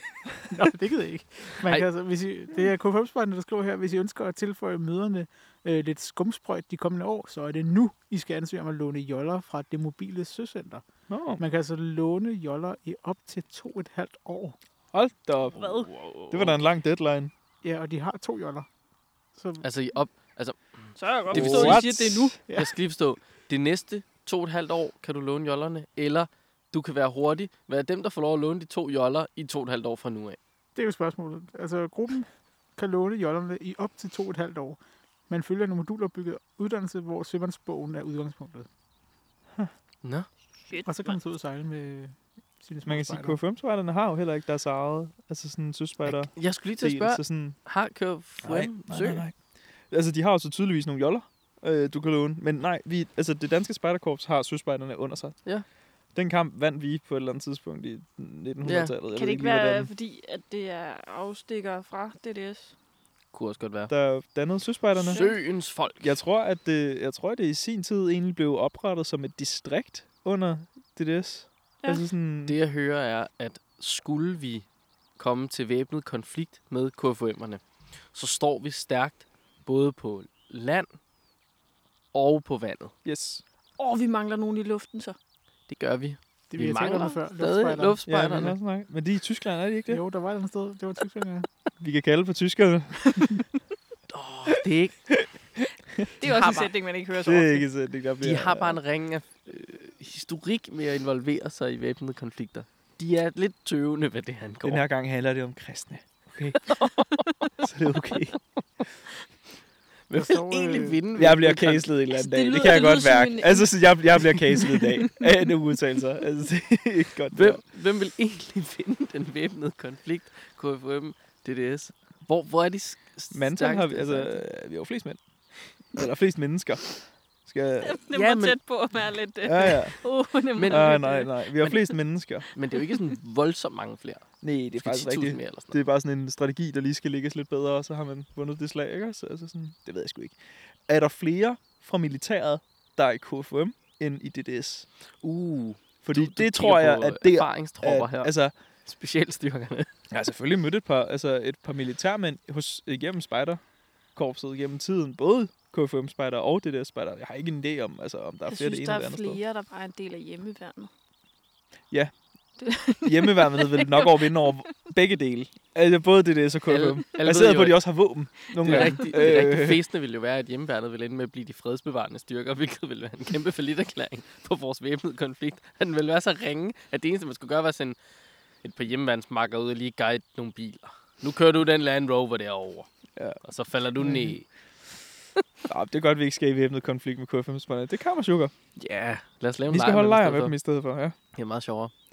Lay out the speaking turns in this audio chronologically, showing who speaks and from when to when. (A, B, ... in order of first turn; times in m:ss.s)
0:00.5-0:10.9 A
0:11.1-0:11.4 B
0:11.4-0:14.6 A
0:14.9-0:17.3 B
0:15.6-0:16.6 C
0:17.6-0:18.7 A
0:19.4-0:19.6 A
0:19.6-0:21.8 C
0:21.0-0:22.4 D
0:21.3-0:22.4 B
0:22.5-0:22.7 A
0:22.5-0:30.4 C
0:30.8-0:38.7 A
0:40.0-0:40.3 C
0:40.7-0:41.2 D
0:40.9-0:43.4 A
0:42.8-0:47.6 B
0:46.0-0:49.2 C
0:48.4-0:55.4 B
0:56.1-0:59.9 B
0:58.6-0:58.9 C
0:59.1-1:02.7 D
1:03.3-1:03.9 C
1:03.9-1:05.3 B
1:05.0-1:06.2 C
1:05.1-1:05.4 D
1:06.0-1:12.6 B
1:12.5-1:14.7 C
1:15.2-1:20.9 C
1:22.1-1:23.0 C
1:23.0-1:23.4 B
1:23.8-1:25.2 D
1:25.7-1:28.6 C
1:26.5-1:28.0 A
1:28.1-1:30.0 B
1:29.9-1:31.5 A
1:31.8-1:33.4 B
1:34.1-1:35.2 C
1:36.0-1:36.3 B
1:36.2-1:37.7 D
1:36.2-1:36.7 C
1:37.1-1:38.8 B
1:38.2-1:44.8 C
1:44.6-1:46.6 B
1:46.7-1:47.3 C
1:47.6-1:48.4 B
1:50.1-1:51.9 C
1:50.1-1:51.0 A
1:51.2-1:57.6 B
1:52.1-1:55.3 D
1:57.3-2:04.4 C
2:03.3-2:05.2 B
2:05.8-2:08.0 B
2:07.8-2:12.0 D
2:08.1-2:08.6 C
2:09.4-2:10.0 B
2:10.6-2:11.1 C
2:10.7-2:12.5 B
2:12.5-2:15.8 C
2:14.4-2:24.9 B
2:25.2-2:29.9 C
2:26.0-2:28.5 B
2:30.1-2:33.6 B
2:34.2-2:39.4 B
2:38.5-2:40.9 D
2:42.6-2:44.3 D
2:43.0-2:49.8 B
2:46.7-2:47.8 C
2:48.6-2:58.0 C
2:48.6-2:49.0 D
2:58.6-3:02.9 C
3:03.4-3:04.5 C
3:05.7-3:08.5 B
3:08.8-3:10.6 C
3:09.7-3:11.2 B
3:11.3-3:11.9 C